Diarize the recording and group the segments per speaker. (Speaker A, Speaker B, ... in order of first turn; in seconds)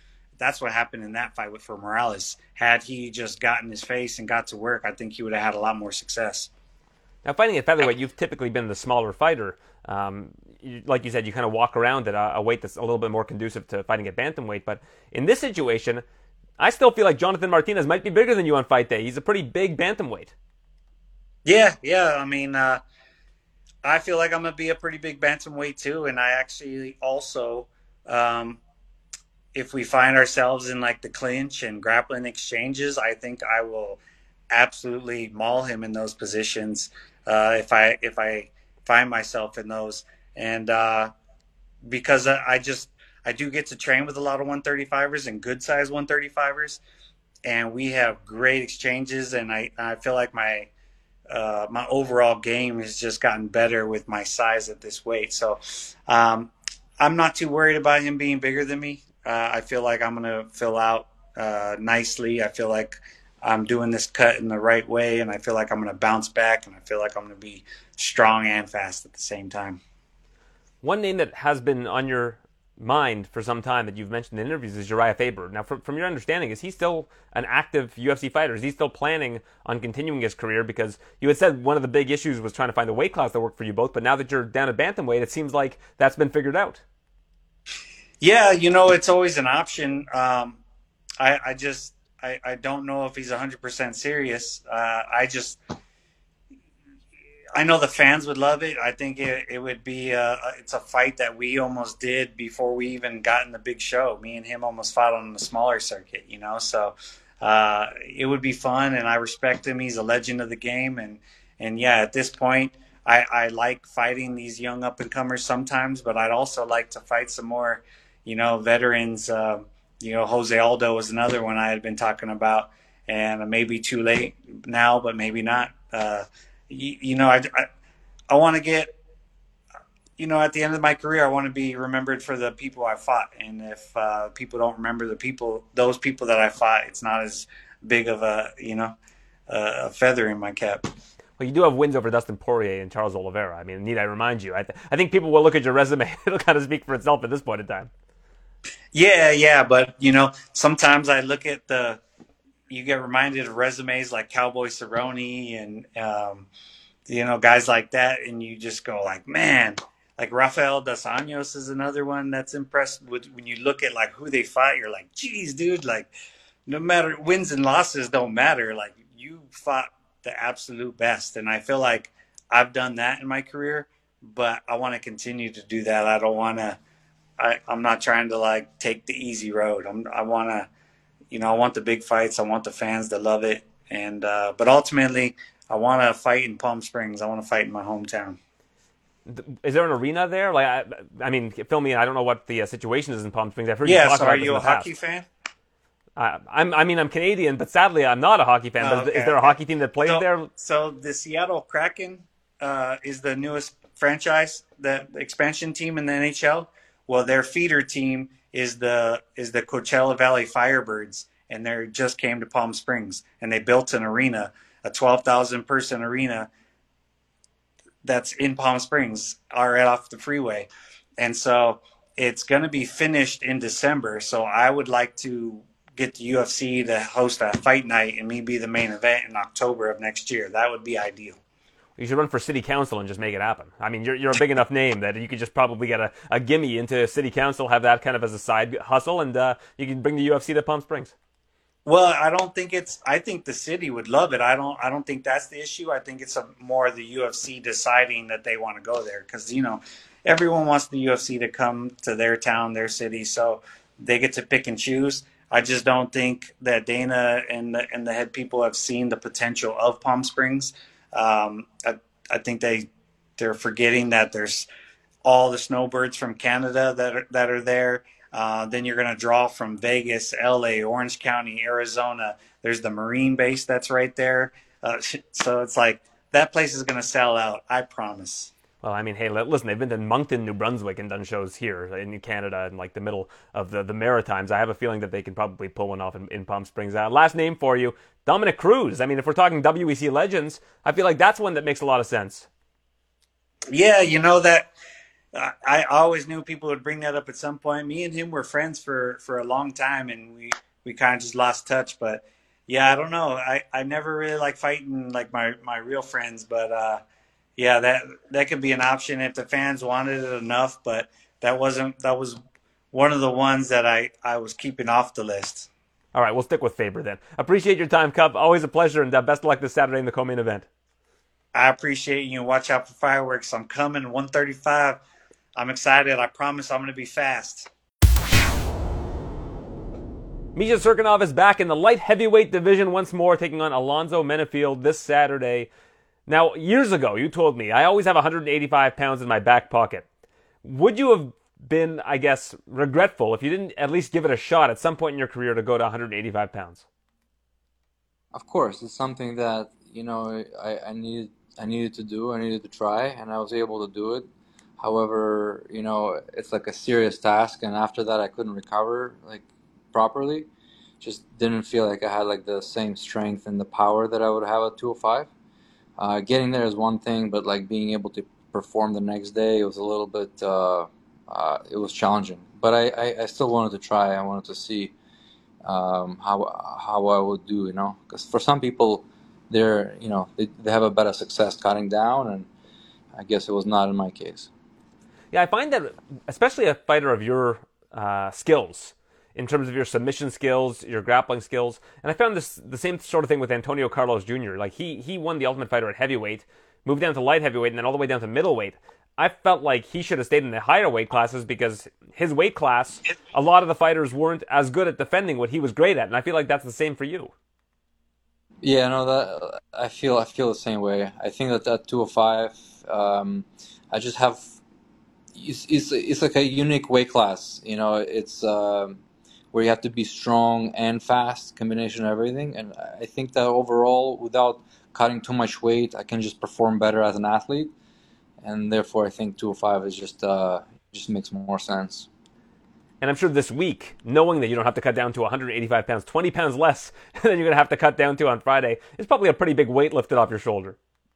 Speaker A: 0.4-6.5, 21.4-22.8, 23.8-28.6, 29.5-34.0, 34.5-41.1, 41.8-46.8, 47.5-50.7, 51.3-69.8, 88.2-90.6, 91.2-95.6, 97.5-127.7, 128.3-128.9, 130.2-138.9, 139.5-140.9, 148.9-152.0, 152.7-156.5, 157.1-166.1, 166.7-176.8, 177.4-180.7, 181.3-188.4, 193.8-195.3, 198.8-216.5, 218.0-220.7, 221.2-231.4, 241.8-264.7, 265.2-278.5, 293.7-294.7, 295.3-307.0, 307.6-312.4, 312.9-315.7, 321.5-325.0, 325.6-327.7
Speaker B: 7.2-16.0, 16.6-20.3, 70.8-86.8, 141.4-147.9, 189.3-194.9, 196.2-200.5, 232.0-241.1, 278.8-292.5, 316.1-320.7, 330.6-335.7, 336.3-340.1, 340.6-346.9, 385.3-407.3, 433.0-440.8
Speaker C: 348.3-354.3, 354.8-360.5, 361.0-365.3, 366.0-374.9, 375.6-382.5, 383.1-384.5, 408.6-414.5, 415.3-419.0, 419.5-427.7, 428.4-432.1